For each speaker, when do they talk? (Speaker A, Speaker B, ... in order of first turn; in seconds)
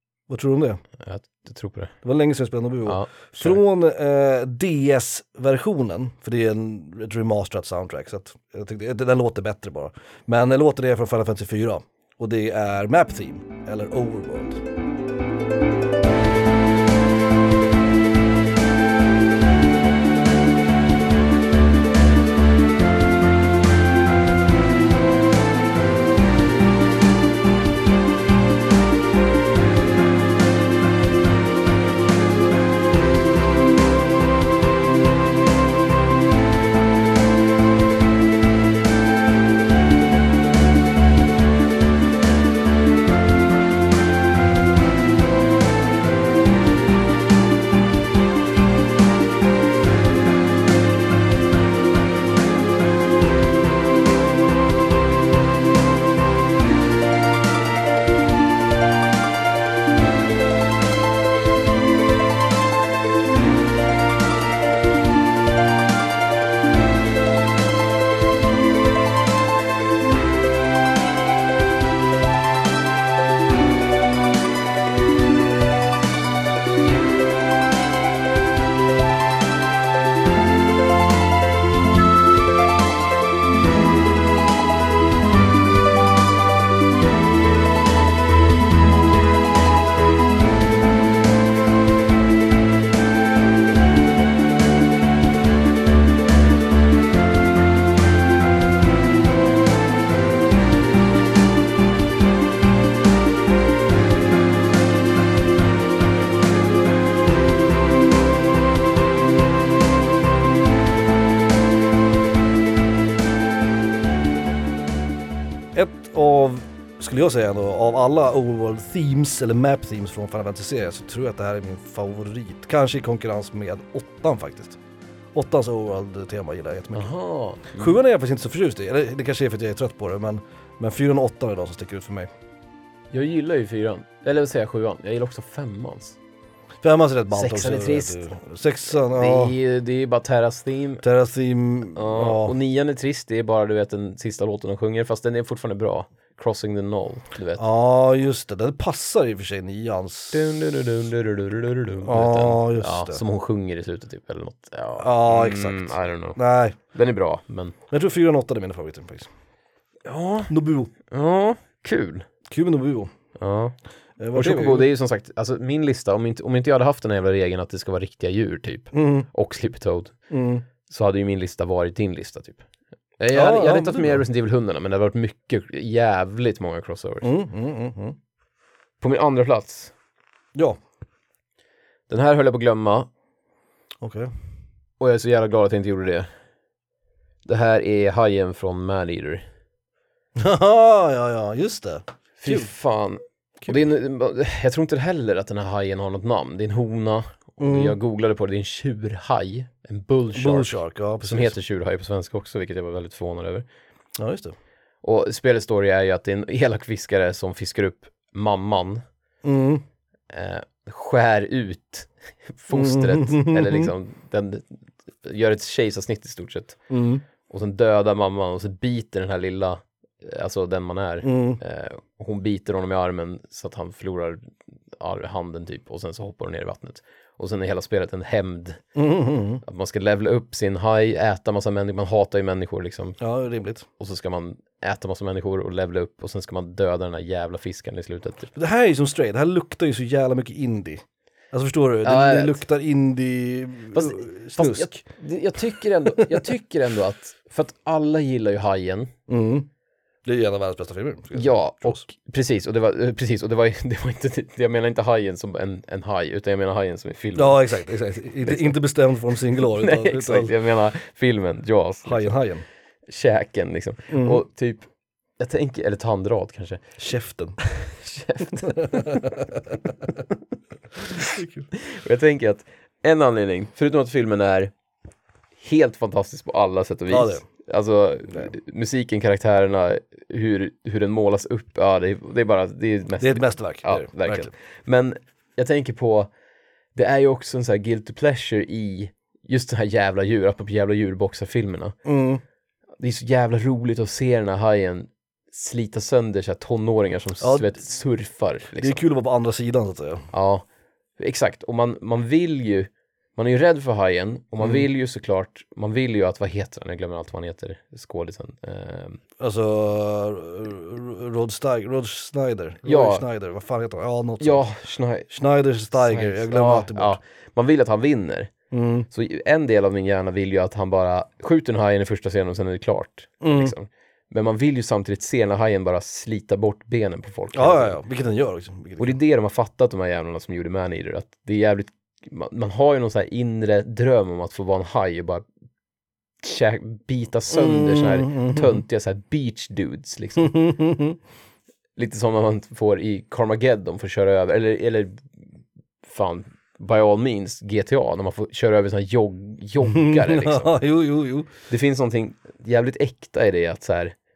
Speaker A: 0.3-0.8, 2.0-14.6, 115.7-124.8, 125.3-127.1, 127.8-132.3, 136.8-139.6, 141.0-142.6, 147.6-150.5, 152.0-153.2, 155.0-156.8, 157.9-159.3, 160.5-160.9, 162.5-163.1, 164.2-164.9, 168.9-169.3, 170.3-170.7, 173.3-174.2, 177.2-178.2, 184.0-184.3, 190.4-192.7, 197.6-198.0, 200.3-201.6, 204.2-204.6, 209.4-209.8, 212.7-213.9, 216.9-217.2, 221.2-221.6, 229.0-229.6, 233.2-233.9, 238.6-245.0, 249.3-249.7, 250.2-252.0, 257.4-260.5, 262.1-262.6, 264.1-264.4, 267.0-267.6, 268.6-269.8, 271.1-271.7, 277.1-277.4, 283.2-284.5, 292.1-292.4, 297.4-297.8, 298.8-300.3, 309.4-314.6, 315.3-317.2, 318.7-319.1, 323.4-323.7, 327.5-329.2, 337.5-338.8, 340.4-341.2, 349.9-351.5
Speaker B: 1.0-1.9, 2.9-3.6, 127.0-128.0, 133.1-136.2, 137.3-138.3, 139.0-141.0, 141.9-147.7, 150.3-156.4, 156.9-157.8, 160.1-160.5, 161.1-162.3, 163.4-163.8, 164.3-170.2, 170.9-172.7, 173.2-177.3, 179.0-179.9, 182.1-183.1, 185.0-186.3, 187.4-189.4, 192.4-203.7, 205.0-209.0, 210.3-216.8, 217.5-228.8, 229.6-233.2, 234.0-238.5, 242.0-242.6, 243.9-249.1, 251.3-257.7, 258.4-258.7, 259.7-262.4, 263.1-264.9, 265.4-266.8, 267.6-269.6, 271.2-274.7, 275.6-286.3, 286.9-292.0, 293.0-299.0, 300.3-300.7, 301.2-309.2, 312.9-313.2, 314.4-315.3, 315.9-318.5, 319.1-328.0, 329.0-335.4, 336.4-340.7, 342.0-345.3, 346.0-350.8, 351.7-354.1